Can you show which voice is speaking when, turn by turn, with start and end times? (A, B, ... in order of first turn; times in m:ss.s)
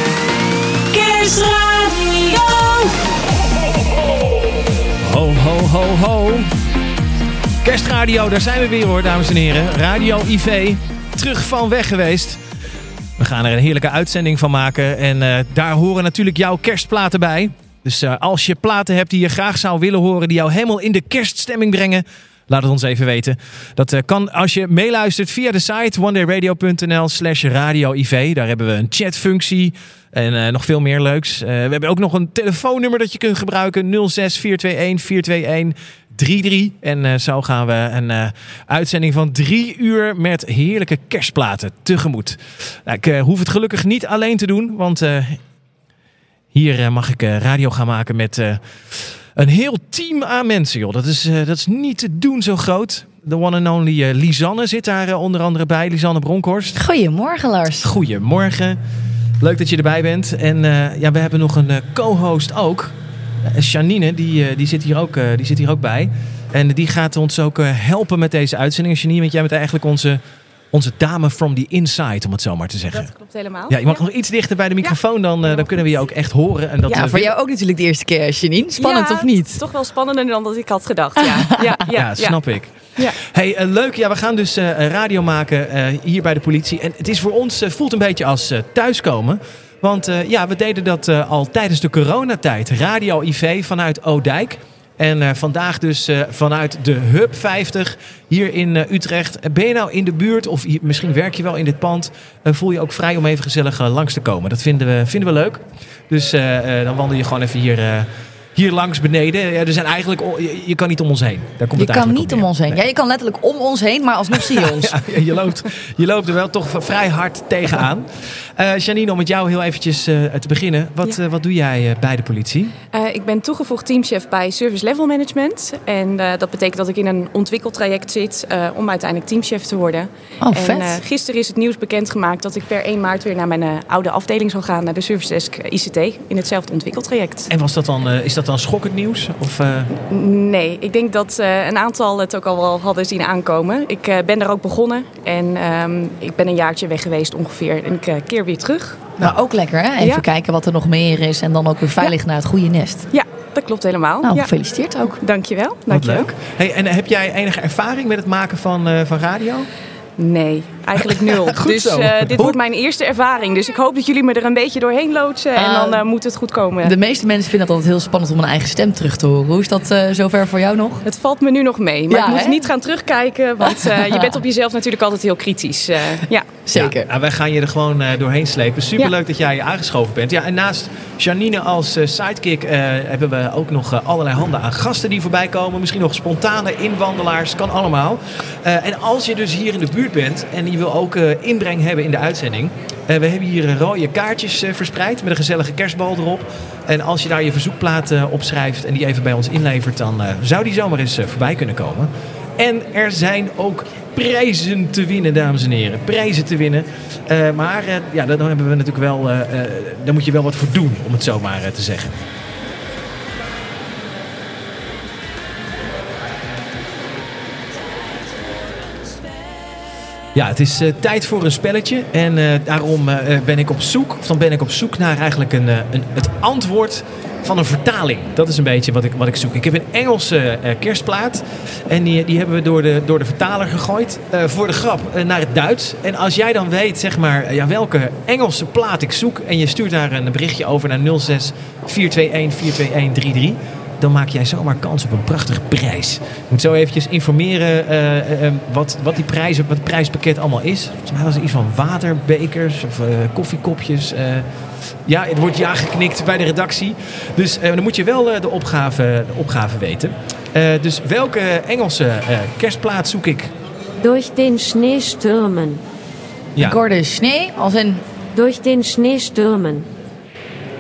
0:00.9-0:03.0 A
0:05.0-0:06.5 B
0:07.6-0:12.4 B
0:13.2-0:45.4 B
0:46.5-0:56.8 B
0:56.8-0:57.9 C
0:57.8-0:58.8 B
0:59.4-1:10.2 B
1:10.7-1:13.1 B
1:12.9-1:14.0 D
1:13.7-1:17.3 B
1:16.9-1:19.6 C
1:18.8-1:22.4 D
1:21.3-1:21.7 C
1:21.9-1:52.8 B
1:51.8-1:55.0 C
1:54.3-2:02.8 B
2:02.9-2:17.5 D
2:10.4-2:11.0 C
2:17.5-2:19.9 B
2:20.1-2:29.2 D
2:29.2-2:33.1 C
2:33.1-2:34.5 D
2:34.2-2:35.2 C
2:35.2-2:36.3 D
2:35.9-2:39.7 B
2:40.2-2:46.9 D
2:41.0-2:42.6 B
2:45.6-2:46.0 C
2:46.8-2:51.0 C
2:51.0-2:56.5 D
2:52.1-2:52.6 C
2:53.6-2:54.4 C
2:56.7-2:57.1 C
2:56.7-3:32.2 B
3:40.3-4:14.5 B
4:15.1-4:23.5 B
4:24.0-4:25.8 E
4:26.6-4:28.0 C
4:28.3-4:29.9 E